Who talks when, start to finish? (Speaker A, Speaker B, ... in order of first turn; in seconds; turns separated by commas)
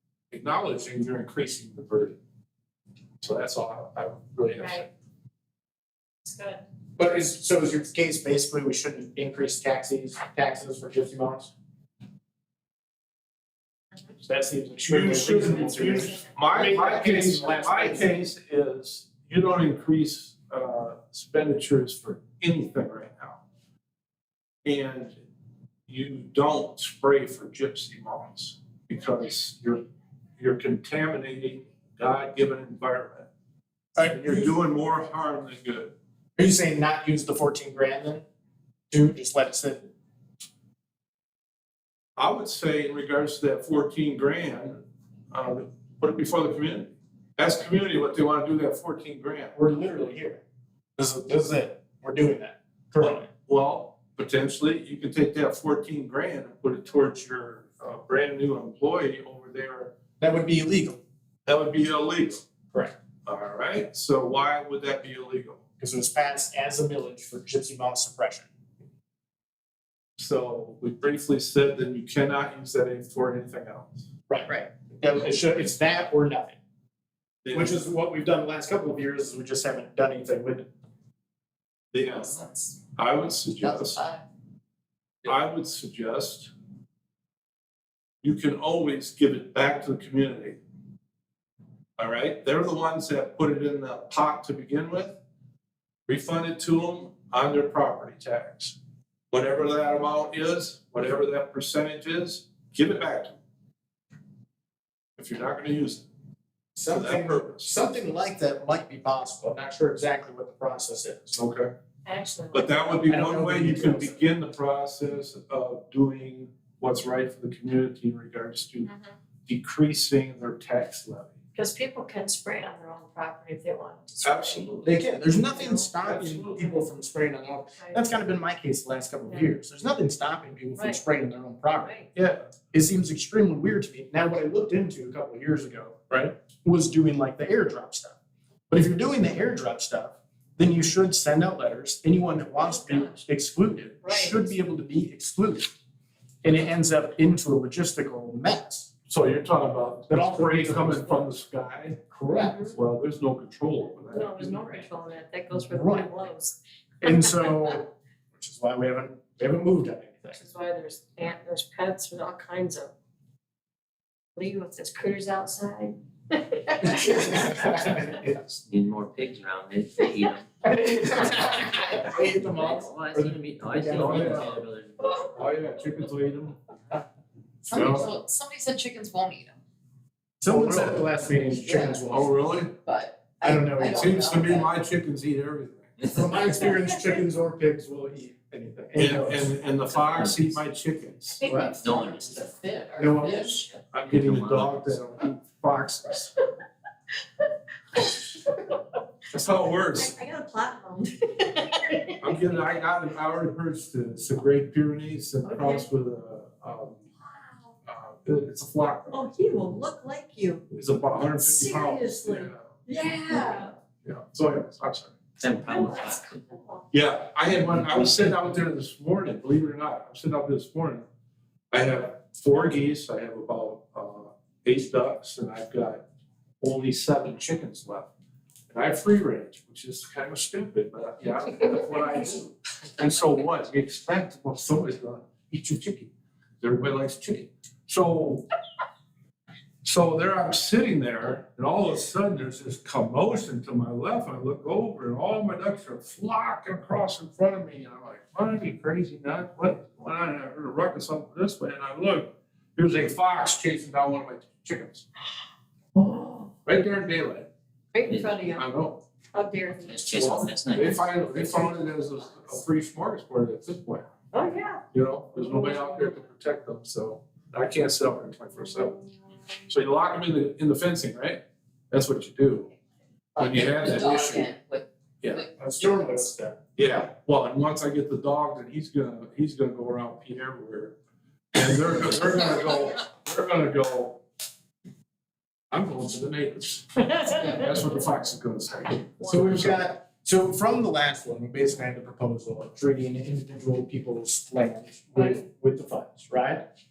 Speaker A: 0.3-2.2, Speaker A: 3.2-4.9, Speaker B: 4.5-4.9, Speaker B: 6.3-6.6, Speaker C: 7.0-11.5, Speaker C: 14.2-18.1, Speaker A: 14.9-23.4, Speaker A: 24.6-25.2, Speaker A: 25.9-29.9, Speaker A: 30.4-33.3, Speaker C: 34.0-34.5, Speaker A: 34.1-35.9, Speaker C: 36.4-38.2, Speaker C: 38.9-39.9, Speaker A: 42.2-44.8, Speaker A: 45.3-49.6, Speaker C: 49.5-50.4, Speaker C: 51.0-53.3, Speaker A: 53.0-59.9, Speaker C: 60.2-61.0, Speaker A: 61.5-62.4, Speaker A: 63.3-65.6, Speaker C: 65.8-68.5, Speaker A: 70.2-74.0, Speaker C: 74.3-76.6, Speaker A: 77.4-77.8, Speaker C: 77.5-80.7, Speaker A: 81.9-82.4, Speaker D: 82.1-82.8, Speaker A: 83.0-84.0, Speaker D: 83.6-84.2, Speaker A: 85.2-86.5, Speaker A: 88.2-90.6, Speaker A: 92.0-95.2, Speaker A: 96.1-98.8, Speaker A: 99.3-103.4, Speaker A: 105.2-106.0, Speaker C: 106.8-111.4, Speaker A: 106.9-107.7, Speaker A: 111.3-111.7, Speaker B: 112.1-113.0, Speaker A: 112.5-118.9, Speaker C: 112.9-114.2, Speaker A: 119.5-121.3, Speaker B: 121.5-124.8, Speaker A: 124.2-125.0, Speaker C: 124.8-132.1, Speaker B: 125.3-125.9, Speaker A: 126.0-126.7, Speaker B: 129.2-129.5, Speaker B: 130.8-131.0, Speaker B: 131.8-132.1, Speaker A: 132.2-132.5, Speaker C: 132.7-138.2, Speaker C: 138.7-145.7, Speaker B: 142.6-143.2, Speaker B: 144.0-144.4, Speaker C: 146.4-148.9, Speaker A: 149.1-152.0, Speaker C: 150.1-151.3, Speaker C: 152.1-152.6, Speaker B: 152.3-152.8, Speaker A: 152.7-154.8, Speaker B: 154.1-157.5, Speaker C: 155.5-156.1, Speaker C: 157.0-157.9, Speaker C: 158.4-160.4, Speaker B: 160.4-162.9, Speaker B: 164.4-168.2, Speaker C: 166.8-168.3, Speaker E: 168.3-170.5, Speaker C: 170.6-174.5, Speaker E: 171.3-175.2, Speaker A: 174.0-174.5, Speaker A: 175.3-176.6, Speaker D: 177.7-179.6, Speaker A: 177.7-178.1, Speaker C: 180.4-182.3, Speaker A: 180.5-181.0, Speaker D: 181.4-184.7, Speaker A: 182.1-182.8, Speaker C: 183.4-184.5, Speaker A: 183.9-185.9, Speaker E: 186.0-186.3, Speaker C: 186.1-189.5, Speaker B: 186.5-187.2, Speaker A: 189.0-191.4, Speaker E: 189.9-190.6, Speaker B: 191.4-191.8, Speaker C: 191.4-191.8, Speaker D: 191.5-193.7, Speaker E: 191.8-192.4, Speaker C: 193.0-193.6, Speaker E: 193.6-194.9, Speaker A: 193.9-196.3, Speaker A: 199.3-200.1, Speaker B: 199.9-202.4, Speaker A: 202.2-207.0, Speaker B: 205.4-205.8, Speaker A: 207.9-209.3, Speaker B: 209.1-210.6, Speaker A: 210.7-212.7, Speaker B: 211.4-213.7, Speaker A: 214.0-215.1, Speaker E: 215.4-216.4, Speaker B: 215.6-216.8, Speaker A: 216.9-221.1, Speaker A: 221.7-226.0, Speaker A: 226.6-228.1, Speaker A: 228.7-238.4, Speaker A: 239.8-255.1, Speaker B: 256.0-256.5, Speaker A: 256.6-257.5, Speaker B: 257.9-258.7, Speaker E: 258.0-258.5, Speaker A: 258.4-259.0, Speaker B: 259.3-260.0, Speaker E: 259.9-261.0, Speaker A: 260.1-264.1, Speaker B: 260.8-261.7, Speaker B: 264.3-264.8, Speaker A: 264.9-269.0, Speaker B: 265.4-266.1, Speaker A: 269.7-272.7, Speaker A: 273.4-274.5, Speaker D: 273.4-276.1, Speaker C: 275.6-276.6, Speaker A: 276.8-280.9, Speaker A: 281.5-284.2, Speaker A: 285.7-289.8, Speaker C: 289.2-296.6